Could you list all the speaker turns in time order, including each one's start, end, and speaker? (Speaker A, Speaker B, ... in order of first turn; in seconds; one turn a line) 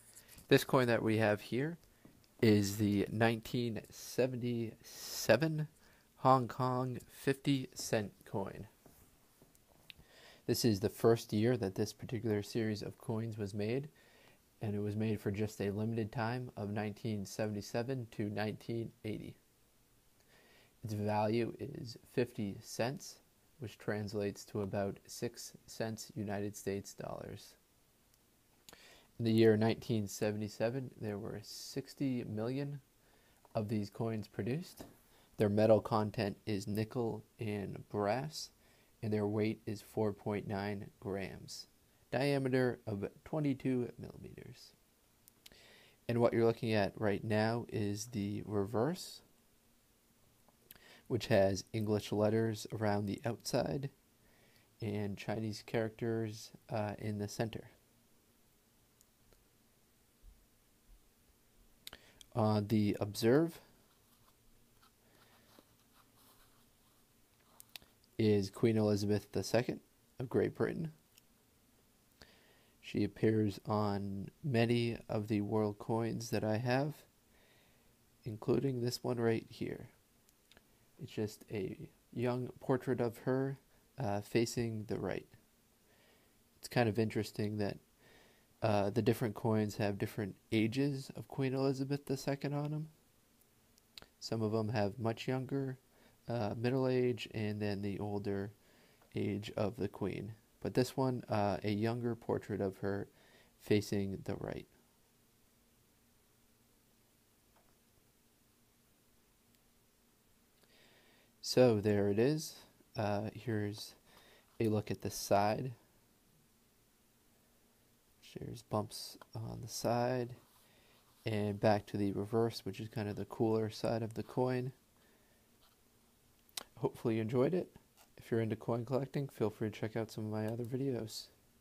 Speaker A: 0.5-1.8
Speaker A: 2.4-8.7
Speaker A: 10.4-13.9
Speaker A: 14.6-19.4
Speaker A: 20.8-27.6
Speaker A: 29.2-32.8
Speaker A: 33.5-34.9
Speaker A: 35.4-44.7
Speaker A: 46.1-49.2
Speaker A: 51.1-53.9
Speaker A: 54.8-57.7
Speaker A: 62.3-63.6
Speaker A: 68.2-70.9
Speaker A: 72.8-77.1
Speaker A: 78.2-79.9
Speaker A: 81.0-85.3
Speaker A: 86.6-87.8
Speaker A: 88.6-92.9
Speaker A: 94.2-98.5
Speaker A: 99.1-104.7
Speaker A: 111.4-114.0
Speaker A: 114.6-115.7
Speaker A: 118.2-120.4
Speaker A: 121.2-124.7
Speaker A: 126.8-131.3